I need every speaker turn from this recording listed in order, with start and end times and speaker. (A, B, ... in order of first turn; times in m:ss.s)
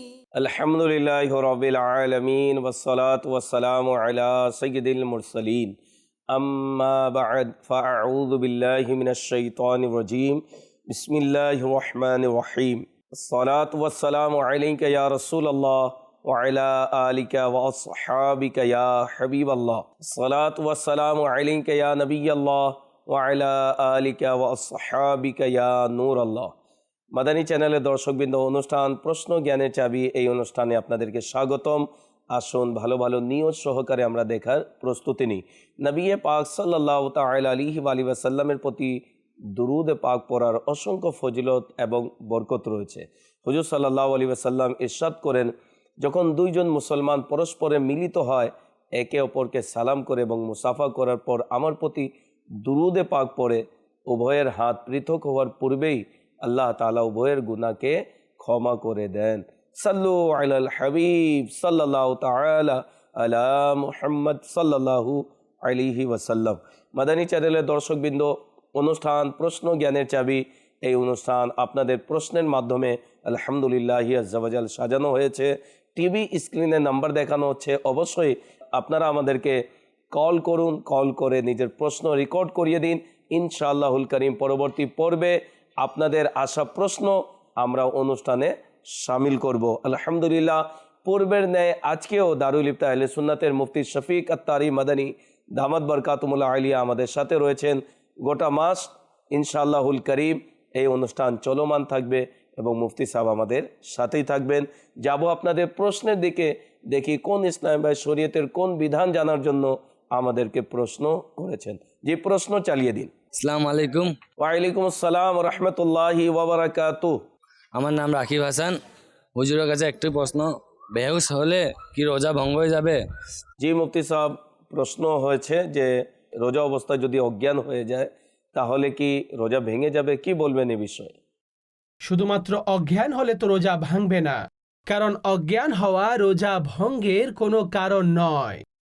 0:00.4-0:05.8 A
0:06.3-0:26.5 A
0:27.1-0:39.0 A
0:39.5-0:52.1 A
0:52.6-1:53.1 A
1:53.3-1:54.2 B
1:54.4-1:57.2 A
1:57.7-1:58.8 B
1:59.3-2:03.0 B
2:03.6-2:11.2 A
2:12.0-2:18.6 C